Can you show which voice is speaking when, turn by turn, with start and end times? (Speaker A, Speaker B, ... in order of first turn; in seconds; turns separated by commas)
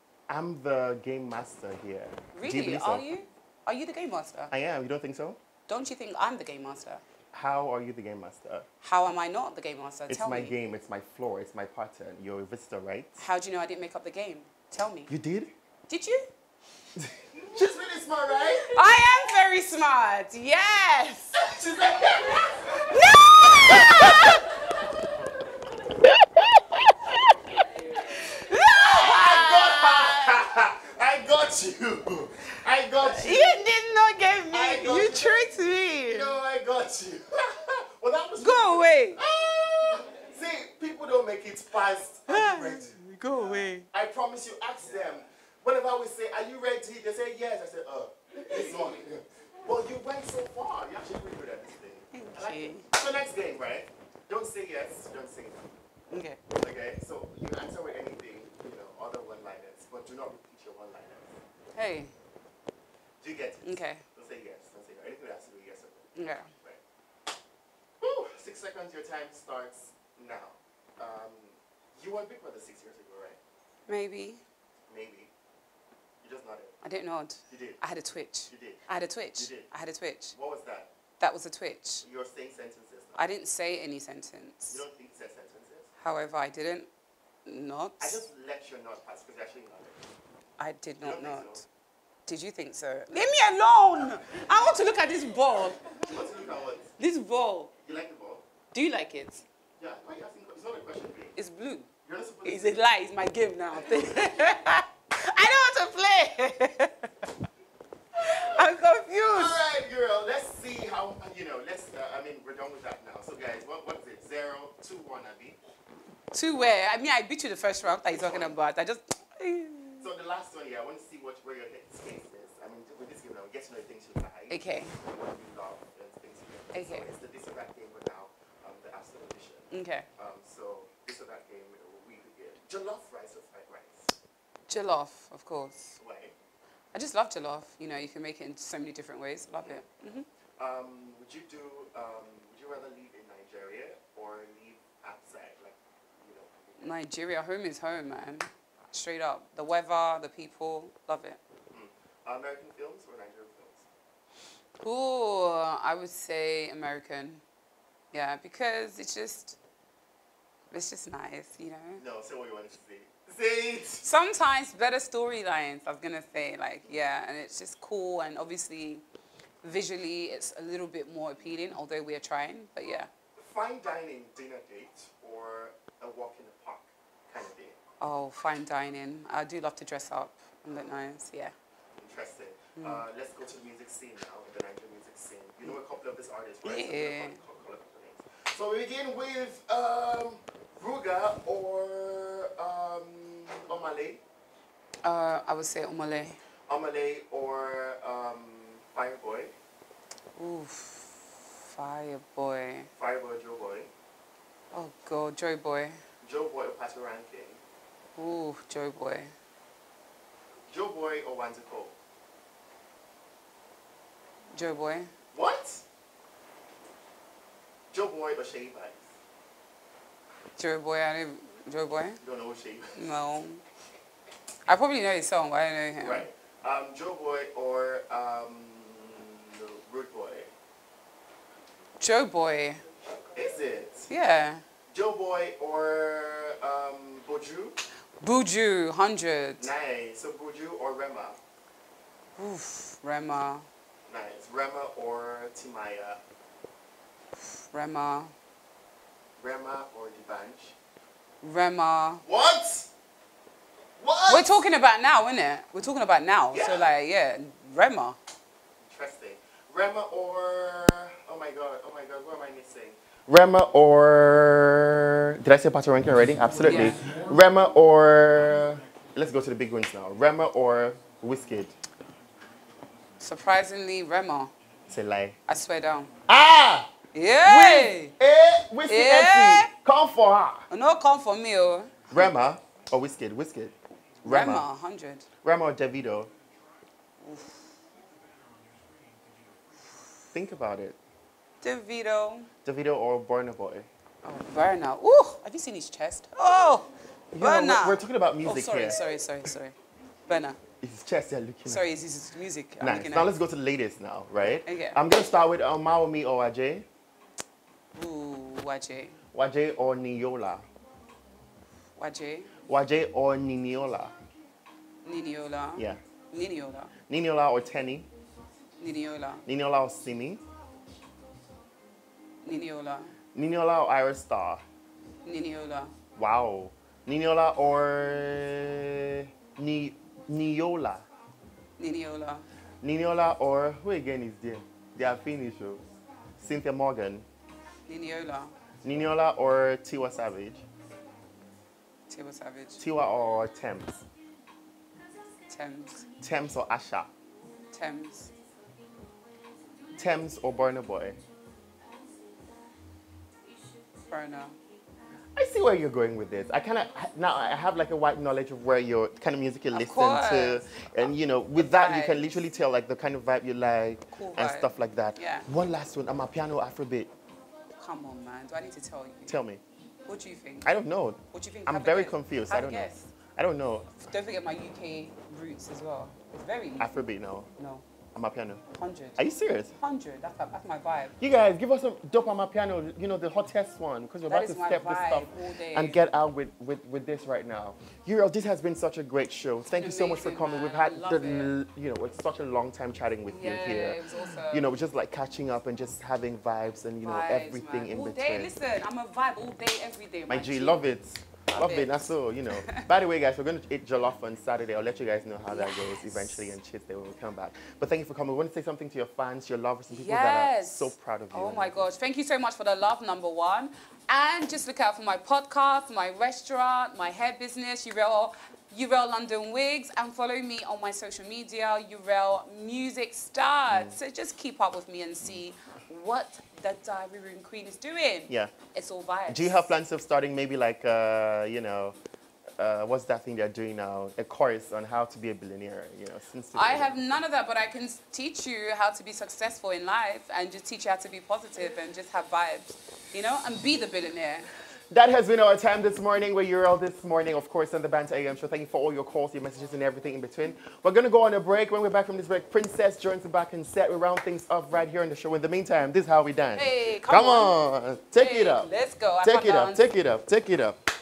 Speaker A: 0.3-3.0, Speaker B: 2.3-4.5, Speaker A: 4.5-5.4, Speaker B: 5.7-7.0, Speaker A: 7.3-8.7, Speaker B: 8.8-10.6, Speaker A: 10.1-13.2, Speaker B: 13.2-15.1, Speaker A: 15.1-15.5, Speaker B: 15.9-16.3, Speaker A: 17.0-19.0, Speaker B: 18.7-21.6, Speaker A: 21.4-24.9, Speaker B: 22.8-24.5, Speaker B: 27.9-30.4, Speaker A: 28.7-33.6, Speaker B: 33.0-36.3, Speaker A: 34.5-55.7, Speaker B: 38.4-39.2, Speaker B: 42.3-43.9, Speaker B: 52.1-52.9, Speaker B: 56.1-56.4, Speaker A: 56.5-61.4, Speaker B: 61.8-62.1, Speaker A: 63.2-66.8, Speaker B: 63.6-64.0, Speaker B: 66.2-66.5, Speaker A: 68.0-73.4, Speaker B: 73.9-74.4, Speaker A: 74.9-75.3, Speaker A: 76.2-76.8, Speaker B: 76.8-80.3, Speaker A: 77.5-77.8, Speaker A: 78.5-78.8, Speaker A: 79.4-79.7, Speaker A: 80.3-80.9, Speaker B: 81.2-82.0, Speaker A: 82.0-83.2, Speaker B: 83.2-84.8, Speaker A: 84.7-85.9, Speaker B: 86.0-86.9, Speaker B: 87.5-88.2, Speaker A: 88.0-90.0, Speaker B: 90.6-91.7, Speaker A: 91.0-91.6, Speaker B: 92.3-96.0, Speaker A: 95.9-96.9, Speaker B: 97.0-97.7, Speaker A: 97.8-98.5, Speaker B: 98.7-99.4, Speaker A: 99.8-101.3, Speaker B: 101.4-101.9, Speaker A: 102.0-102.8, Speaker B: 102.5-107.1, Speaker A: 103.7-104.4, Speaker B: 108.2-109.6, Speaker A: 108.2-108.7, Speaker A: 109.3-115.6, Speaker B: 116.3-120.1, Speaker A: 118.1-118.5, Speaker A: 120.0-134.2, Speaker B: 124.5-125.0, Speaker B: 126.7-127.1, Speaker B: 129.7-130.1, Speaker B: 134.7-136.0, Speaker A: 136.0-136.4, Speaker B: 136.9-140.3, Speaker A: 140.6-146.9, Speaker B: 146.8-151.4, Speaker A: 151.7-153.9, Speaker B: 154.8-157.4, Speaker B: 158.1-159.6, Speaker B: 160.7-162.0, Speaker A: 162.0-164.1, Speaker B: 164.0-169.0, Speaker B: 169.6-173.1, Speaker A: 173.4-177.8, Speaker B: 178.0-181.5, Speaker A: 182.0-194.2, Speaker B: 186.6-187.4, Speaker B: 195.0-196.4, Speaker A: 196.7-199.5, Speaker B: 200.4-202.9, Speaker A: 203.0-203.9, Speaker B: 204.7-206.0, Speaker A: 206.2-207.6, Speaker B: 208.2-209.3, Speaker A: 210.7-212.0, Speaker B: 214.5-215.1, Speaker A: 215.3-215.8, Speaker A: 217.9-219.1, Speaker B: 220.6-222.2, Speaker A: 222.2-223.1, Speaker B: 223.0-223.6, Speaker B: 224.7-226.3, Speaker A: 226.0-230.5, Speaker B: 232.0-232.8, Speaker A: 233.3-234.1, Speaker B: 234.1-234.6, Speaker A: 234.9-237.8, Speaker B: 238.2-239.7, Speaker A: 239.6-241.4, Speaker B: 242.4-243.7, Speaker A: 244.1-246.2, Speaker B: 247.5-248.3, Speaker A: 249.4-250.8, Speaker B: 251.4-252.2, Speaker A: 252.2-252.9, Speaker A: 254.0-254.6, Speaker B: 254.3-258.2, Speaker A: 256.5-256.9, Speaker A: 258.9-271.7, Speaker B: 266.7-267.0, Speaker B: 273.2-274.5, Speaker A: 274.9-275.4, Speaker B: 275.5-276.1, Speaker A: 276.3-276.9, Speaker B: 277.1-278.1, Speaker A: 277.4-280.7, Speaker B: 278.9-279.7, Speaker B: 280.7-282.3, Speaker A: 282.1-284.7, Speaker B: 284.2-285.3, Speaker A: 285.4-286.3, Speaker B: 287.2-287.7, Speaker A: 290.3-291.0, Speaker B: 291.6-292.5, Speaker A: 292.6-293.9, Speaker B: 294.2-299.8, Speaker A: 297.3-299.0, Speaker B: 300.3-300.6, Speaker A: 300.8-301.8, Speaker B: 301.7-303.3, Speaker A: 302.8-306.9, Speaker B: 304.6-305.0, Speaker B: 307.9-309.2, Speaker A: 309.3-310.7, Speaker B: 312.0-312.5, Speaker A: 312.7-314.1, Speaker B: 315.1-316.9, Speaker A: 315.8-316.0, Speaker A: 317.1-318.1, Speaker B: 318.8-319.4, Speaker A: 319.5-320.4, Speaker B: 322.4-323.1, Speaker A: 323.3-324.6, Speaker B: 325.2-325.9, Speaker A: 326.2-331.1, Speaker B: 331.8-332.5, Speaker A: 332.8-335.8, Speaker A: 336.4-337.3, Speaker B: 337.9-338.5, Speaker A: 338.8-340.6, Speaker B: 342.1-342.8, Speaker A: 342.8-344.1, Speaker B: 345.5-346.1, Speaker A: 346.2-347.1, Speaker B: 347.7-348.3, Speaker A: 350.0-351.2, Speaker B: 354.1-354.6, Speaker A: 355.4-367.1, Speaker B: 359.7-360.9, Speaker B: 361.6-362.4, Speaker B: 364.1-365.5, Speaker B: 367.8-369.4, Speaker A: 369.3-369.6, Speaker B: 370.1-370.7, Speaker A: 370.6-374.1, Speaker B: 371.3-373.1, Speaker B: 374.1-376.9, Speaker A: 376.8-377.5, Speaker B: 377.6-377.8, Speaker A: 378.1-378.6, Speaker B: 378.7-379.2, Speaker A: 379.2-379.7, Speaker B: 379.8-381.2, Speaker A: 381.2-394.0, Speaker B: 384.3-386.0, Speaker B: 389.7-391.5, Speaker B: 393.3-394.8, Speaker A: 394.5-398.5, Speaker B: 397.0-400.9, Speaker A: 400.3-411.9, Speaker B: 401.4-402.8, Speaker B: 405.5-406.5, Speaker B: 409.9-429.7, Speaker A: 423.7-424.0, Speaker A: 428.3-428.5, Speaker A: 429.3-432.0, Speaker A: 432.6-437.0, Speaker B: 436.5-444.5, Speaker A: 444.9-458.7, Speaker B: 456.6-457.5, Speaker B: 458.2-459.8, Speaker A: 459.2-460.8